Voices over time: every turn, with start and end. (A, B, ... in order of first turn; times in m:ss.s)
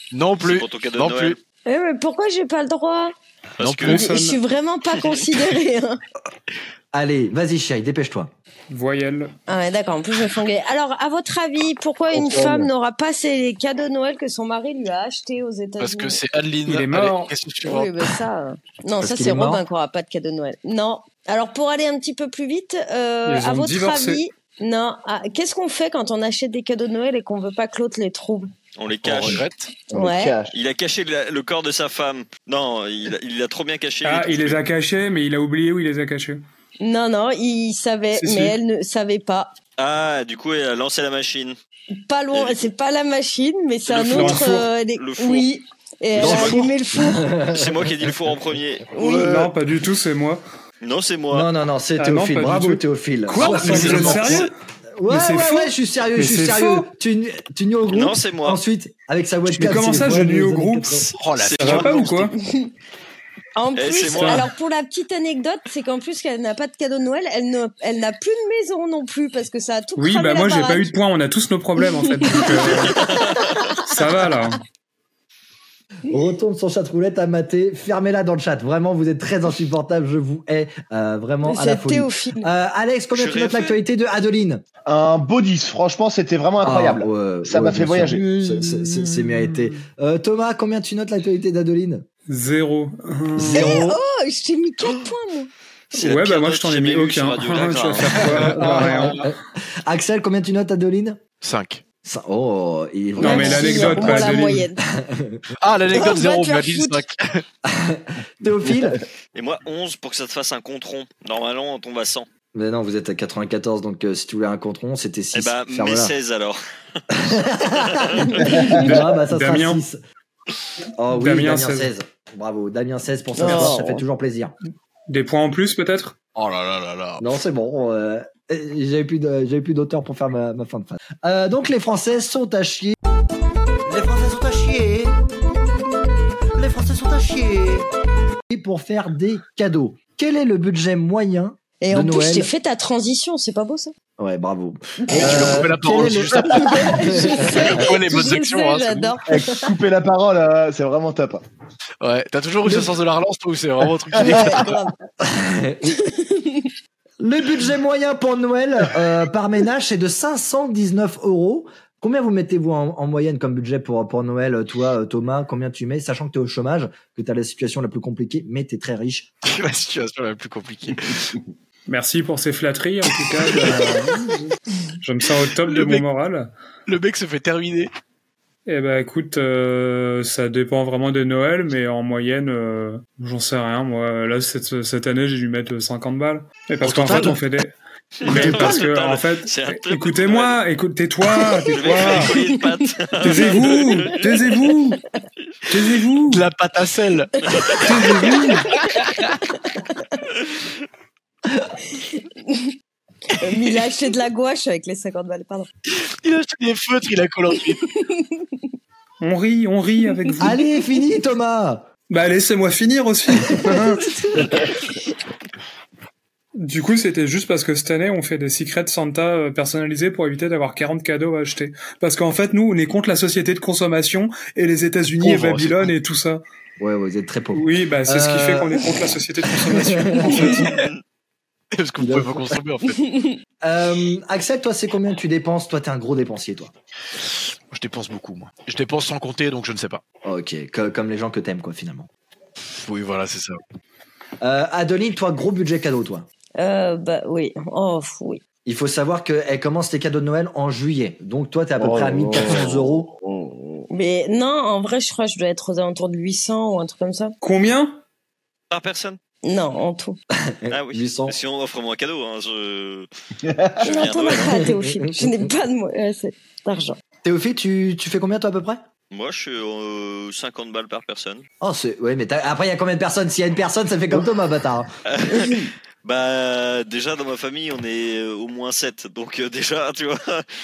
0:00.1-0:01.4 A
0:00.4-0:01.4 B
0:01.7-0:03.2 C
0:03.6-0:04.0 A
0:03.8-0:04.4 D
0:03.8-0:06.0 C
0:06.9-0:08.3 E
0:08.7-0:09.3 D
0:09.5-0:16.2 C
0:12.1-0:12.7 F
0:15.8-0:18.2 A
0:16.7-0:17.3 D
0:17.6-0:28.5 C
0:19.0-0:19.6 E
0:23.3-0:24.2 D
0:28.8-0:29.4 B
0:29.0-0:29.8 A
0:29.9-0:30.6 F
0:29.9-0:30.4 C
0:30.5-0:34.6 B
0:34.0-0:36.4 D
0:36.8-0:39.5 C
0:38.2-0:38.6 D
0:39.8-0:41.6 B
0:42.1-0:47.3 C
0:42.3-0:42.6 B
0:43.9-0:45.5 B
0:44.0-0:44.7 D
0:46.2-0:46.6 B
0:46.2-0:48.1 E
0:47.5-0:48.9 B
0:48.9-0:49.3 C
0:49.0-0:49.5 F
0:49.2-0:50.4 D
0:50.8-0:51.5 B
0:51.3-0:54.4 E
0:52.0-0:54.5 D
0:53.3-0:54.5 A
0:55.0-1:01.1 E
0:55.1-0:56.9 D
0:57.9-0:58.6 B
0:59.5-1:02.3 D
1:01.1-1:02.3 A
1:01.4-1:02.0 B
1:02.4-1:02.7 C
1:03.6-1:10.9 C
1:03.8-1:04.5 B
1:04.1-1:04.5 D
1:10.0-1:14.6 D
1:11.9-1:13.6 C
1:16.1-1:24.6 E
1:21.4-1:22.5 C
1:23.1-1:23.8 B
1:24.9-1:28.4 F
1:26.6-1:32.1 E
1:28.4-1:29.8 D
1:32.3-1:33.8 D
1:33.4-1:34.0 E
1:33.5-1:35.5 C
1:35.9-1:38.8 B
1:35.9-1:39.3 D
1:38.2-1:39.2 A
1:38.5-1:41.2 E
1:41.4-1:41.8 A
1:42.0-1:45.4 E
1:43.2-1:44.7 D
1:43.2-1:44.8 C
1:45.6-1:47.4 A
1:45.9-1:47.0 C
1:47.6-1:49.0 E
1:48.6-1:49.0 F
1:49.4-1:52.3 B
1:52.5-1:56.1 E
1:55.3-1:56.6 B
1:57.1-2:00.0 E
1:57.3-1:58.4 B
1:58.2-1:58.8 C
1:58.4-1:59.0 F
1:58.9-1:59.8 D
2:01.0-2:04.6 E
2:01.1-2:01.9 D
2:03.4-2:04.0 C
2:05.1-2:06.2 D
2:06.4-2:07.3 A
2:07.2-2:13.0 E
2:13.9-2:15.2 E
2:16.6-2:17.9 E
2:18.5-2:22.5 E
2:21.8-2:23.9 C
2:24.2-2:27.8 E
2:25.0-2:25.5 C
2:25.1-2:29.2 A
2:26.5-2:29.7 C
2:29.3-2:31.4 F
2:32.0-2:34.8 A
2:34.1-2:34.6 F
2:34.2-2:34.9 C
2:35.2-2:36.0 E
2:35.9-2:36.7 C
2:37.2-2:49.3 E
2:49.4-2:51.4 A
2:51.9-2:56.5 D
2:53.2-2:54.0 A
2:55.7-2:56.1 A
2:56.9-2:57.9 A
2:58.7-3:12.4 D
3:06.8-3:07.4 A
3:08.2-3:10.6 B
3:11.4-3:14.5 B
3:12.1-3:12.9 C
3:13.2-3:15.0 D
3:15.7-3:16.5 D
3:16.3-3:17.9 A
3:17.8-3:18.7 D
3:18.8-3:19.4 A
3:18.9-3:20.2 C
3:21.9-3:22.7 C
3:23.4-3:25.7 C
3:25.9-3:27.8 A
3:28.1-3:28.6 C
3:29.2-3:30.6 D
3:30.4-3:31.9 E
3:32.1-3:34.1 D
3:33.6-3:34.6 E
3:36.6-3:46.4 D
3:45.2-3:45.9 A
3:46.8-3:49.0 E
3:47.5-3:50.8 D
3:49.6-3:50.7 E
3:51.7-3:53.0 A
3:52.0-3:52.6 E
3:52.9-3:53.4 C
3:53.6-3:56.7 E
3:57.7-4:00.0 A
4:00.2-4:02.1 E
4:02.8-4:03.6 A
4:04.4-4:06.3 E
4:06.6-4:08.4 C
4:08.7-4:13.1 E
4:11.8-4:13.8 F
4:13.9-4:17.4 C
4:17.4-4:18.0 D
4:18.7-4:19.2 B
4:19.4-4:20.2 C
4:20.4-4:21.4 E
4:20.7-4:23.1 B
4:23.4-4:23.9 F
4:23.8-4:24.6 B
4:23.8-4:27.0 C
4:24.4-4:25.5 E
4:27.2-4:28.8 E
4:29.1-4:31.4 B
4:31.6-4:34.9 E
4:35.1-4:40.5 B
4:35.3-4:35.6 C